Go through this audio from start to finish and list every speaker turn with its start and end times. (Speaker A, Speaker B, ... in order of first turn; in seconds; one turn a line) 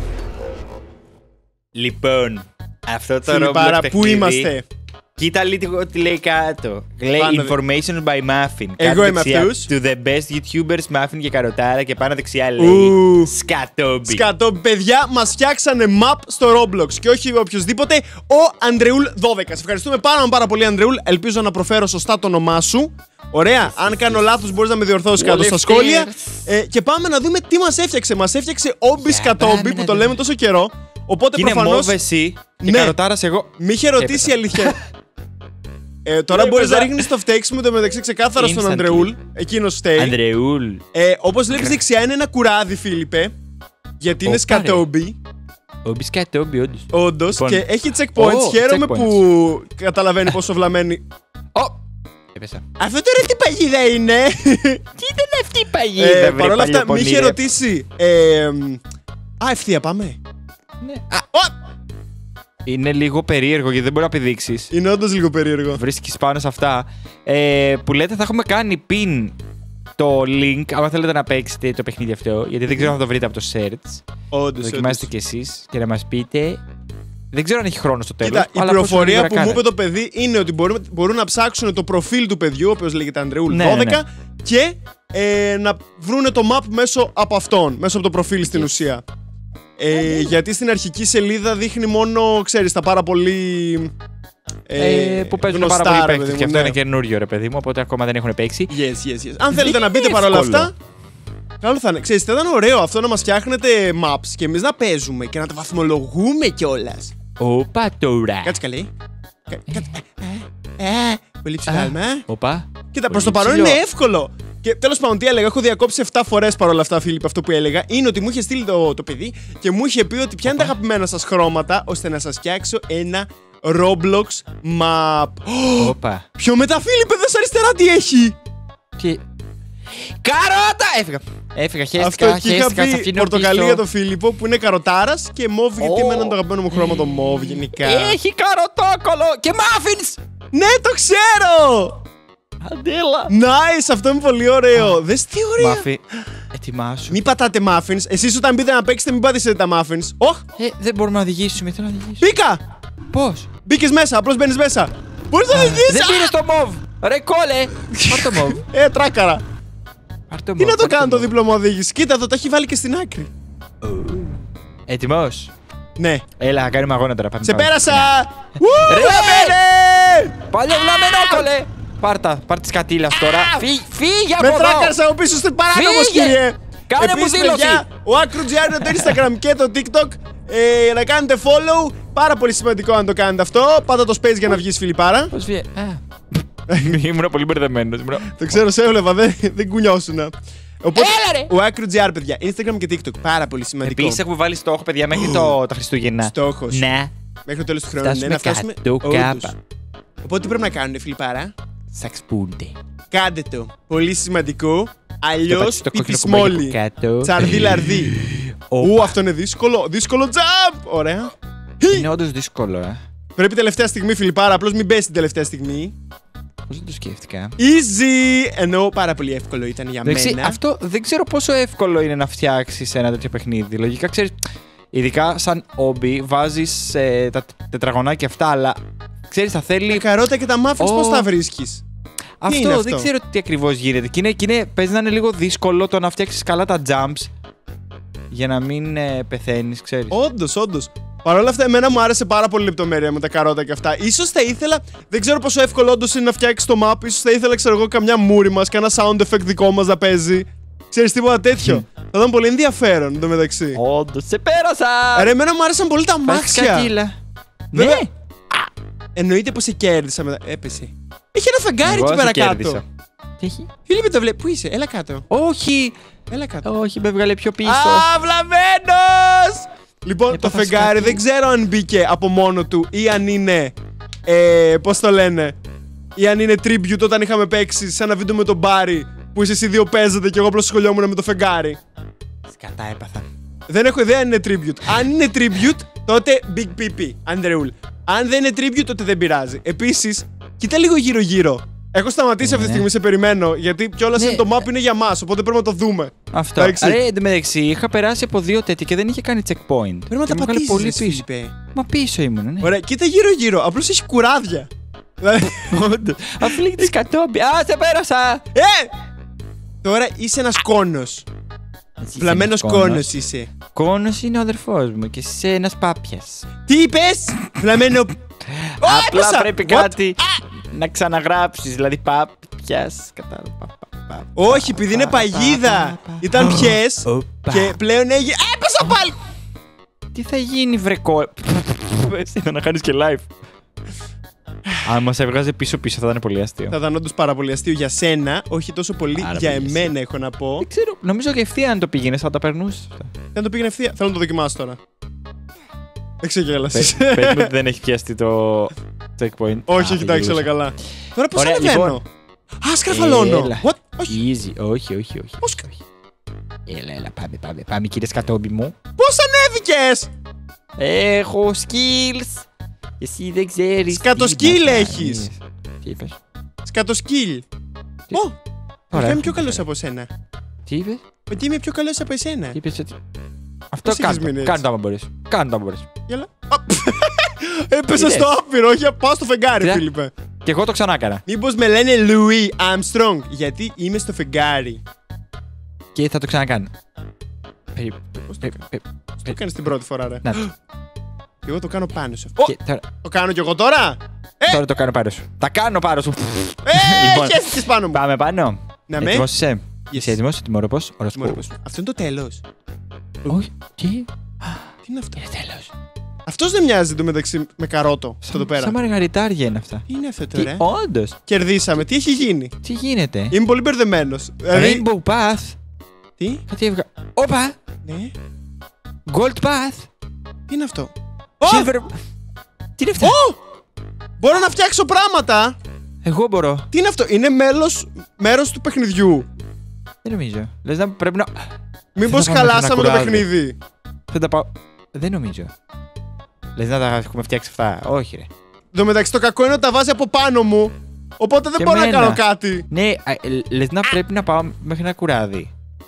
Speaker A: 1.8-4.5
Speaker B: 3.3-4.7
Speaker A: 5.2-14.3
Speaker B: 7.2-7.6
Speaker B: 8.8-9.7
Speaker B: 12.6-13.3
Speaker B: 14.1-32.0
Speaker A: 23.7-24.2
Speaker A: 25.2-26.4
Speaker A: 29.0-30.1
Speaker A: 31.4-34.8
Speaker B: 32.6-33.0
Speaker B: 33.6-34.8
Speaker B: 36.0-40.1
Speaker A: 36.3-37.1
Speaker A: 38.4-39.1
Speaker A: 40.0-40.8
Speaker B: 40.9-43.3
Speaker A: 41.5-41.8
Speaker B: 44.0-45.2
Speaker A: 44.2-44.9
Speaker A: 45.9-49.2
Speaker B: 46.9-51.0
Speaker A: 51.5-51.8
Speaker A: 52.3-52.6
Speaker B: 52.8-54.8
Speaker A: 55.0-57.4
Speaker B: 56.0-58.8
Speaker B: 59.4-60.2
Speaker A: 60.8-61.2
Speaker A: 62.7-64.7
Speaker B: 64.7-65.8
Speaker A: 65.8-69.4
Speaker A: 70.0-74.0
Speaker B: 74.3-75.1
Speaker A: 74.6-76.6
Speaker A: 77.3-79.6
Speaker B: 78.2-89.0
Speaker A: 83.5-84.0
Speaker A: 88.4-88.7
Speaker B: 89.8-93.9
Speaker B: 94.7-96.8
Speaker A: 94.8-98.7
Speaker B: 98.7-100.7
Speaker A: 99.5-100.7
Speaker B: 101.6-107.1
Speaker A: 107.4-108.6
Speaker B: 108.4-108.9
Speaker B: 109.5-112.3
Speaker A: 111.7-113.8
Speaker B: 112.9-128.4
Speaker A: 120.5-120.7
Speaker A: 125.8-126.3
Speaker A: 130.0-133.8
Speaker B: 132.0-138.2
Speaker A: 135.8-140.2
Speaker B: 140.5-142.0
Speaker A: 142.6-143.3
Speaker B: 143.3-145.9
Speaker A: 145.6-146.0
Speaker A: 146.5-147.2
Speaker B: 147.1-150.4
Speaker A: 150.6-152.3
Speaker B: 152.2-152.6
Speaker A: 153.1-153.5
Speaker B: 153.7-156.3
Speaker A: 155.5-158.6
Speaker B: 158.0-159.4
Speaker A: 160.3-161.3
Speaker B: 160.6-163.3
Speaker A: 163.8-165.5
Speaker B: 166.0-166.2
Speaker A: 166.4-168.1
Speaker B: 167.4-170.4
Speaker A: 168.7-169.6
Speaker A: 170.5-175.0
Speaker B: 171.0-171.4
Speaker B: 173.2-173.7
Speaker B: 174.4-185.3
Speaker A: 175.7-176.4
Speaker A: 176.9-177.8
Speaker A: 178.8-179.1
Speaker A: 185.3-188.4
Speaker B: 186.7-187.0
Speaker B: 188.2-194.2
Speaker A: 190.9-191.5
Speaker A: 193.8-197.1
Speaker B: 195.1-195.6
Speaker B: 196.2-196.8
Speaker B: 197.5-199.5
Speaker A: 198.0-199.5
Speaker B: 200.2-201.5
Speaker A: 201.9-202.7
Speaker B: 203.1-208.1
Speaker A: 205.5-209.1
Speaker B: 208.8-212.1
Speaker A: 211.9-213.0
Speaker B: 213.4-215.9
Speaker A: 216.7-217.6
Speaker B: 217.6-220.6
Speaker A: 220.0-224.4
Speaker A: 224.9-230.1
Speaker B: 229.9-231.8
Speaker A: 230.8-231.3
Speaker A: 232.4-237.3
Speaker B: 232.5-233.1
Speaker A: 238.3-240.2
Speaker B: 240.1-253.8
Speaker A: 251.6-251.8
Speaker A: 253.8-255.3
Speaker B: 255.2-256.9
Speaker A: 256.3-257.2
Speaker A: 257.7-258.1
Speaker B: 257.7-258.1
Speaker B: 259.1-262.8
Speaker A: 261.8-262.8
Speaker A: 263.4-263.7
Speaker B: 263.9-265.3
Speaker A: 265.3-265.9
Speaker B: 266.3-266.7
Speaker A: 266.6-268.1
Speaker B: 267.6-273.7
Speaker A: 270.3-271.2
Speaker B: 274.3-275.6
Speaker B: 276.2-281.8
Speaker A: 282.5-283.3
Speaker B: 283.7-297.0
Speaker A: 292.4-292.9
Speaker A: 294.2-294.6
Speaker A: 296.3-302.7
Speaker B: 300.1-301.6
Speaker B: 302.6-304.7
Speaker B: 305.2-305.8
Speaker A: 305.7-308.4
Speaker B: 306.4-306.9
Speaker B: 308.5-308.9
Speaker B: 309.8-311.2
Speaker A: 312.0-313.1
Speaker B: 312.2-313.5
Speaker A: 313.7-316.5
Speaker B: 316.7-318.1
Speaker A: 318.5-327.8
Speaker B: 318.8-320.4
Speaker B: 324.4-329.1
Speaker A: 330.1-333.3
Speaker A: 334.8-336.8
Speaker B: 336.7-340.6
Speaker A: 339.2-339.9
Speaker A: 340.6-343.1
Speaker B: 343.4-344.8
Speaker B: 346.2-347.5
Speaker A: 346.7-350.5
Speaker B: 349.7-352.0
Speaker A: 351.3-352.0
Speaker B: 352.6-354.2
Speaker A: 352.9-355.8
Speaker A: 356.7-358.8
Speaker B: 359.0-360.1
Speaker A: 360.8-362.5
Speaker A: 363.0-366.2
Speaker B: 363.9-365.3
Speaker B: 366.6-367.5
Speaker A: 368.9-369.6
Speaker B: 368.9-370.1
Speaker A: 370.7-371.0
Speaker B: 371.3-372.6
Speaker A: 372.5-373.0
Speaker A: 373.7-375.9
Speaker B: 373.9-374.6
Speaker B: 376.1-380.1
Speaker A: 377.9-378.3
Speaker A: 379.6-379.9
Speaker A: 380.4-381.2
Speaker B: 381.3-384.8
Speaker A: 385.9-386.7
Speaker A: 387.7-389.4
Speaker B: 388.3-388.6
Speaker B: 389.2-390.5
Speaker B: 391.4-394.6
Speaker A: 392.4-392.9
Speaker A: 394.5-401.4
Speaker B: 396.6-398.0
Speaker B: 398.9-399.3
Speaker B: 399.9-400.2
Speaker B: 401.1-402.4
Speaker A: 403.3-404.6
Speaker B: 404.9-405.2
Speaker A: 405.2-405.7
Speaker B: 406.3-408.8
Speaker A: 408.3-411.1
Speaker B: 409.9-410.7
Speaker B: 411.3-412.5
Speaker A: 412.6-413.3
Speaker B: 413.3-414.9
Speaker A: 414.5-415.6
Speaker B: 416.2-416.4
Speaker A: 416.5-417.6
Speaker B: 417.9-418.1
Speaker A: 419.1-419.9
Speaker B: 420.5-421.7
Speaker A: 421.4-421.9
Speaker A: 422.8-423.2
Speaker B: 423.0-423.4
Speaker B: 424.2-425.6
Speaker A: 426.0-426.7
Speaker B: 426.7-429.3
Speaker A: 430.0-431.5
Speaker B: 431.9-433.6
Speaker A: 432.0-433.3
Speaker A: 434.1-435.5
Speaker A: 436.6-438.3
Speaker B: 438.7-442.7
Speaker A: 441.6-445.5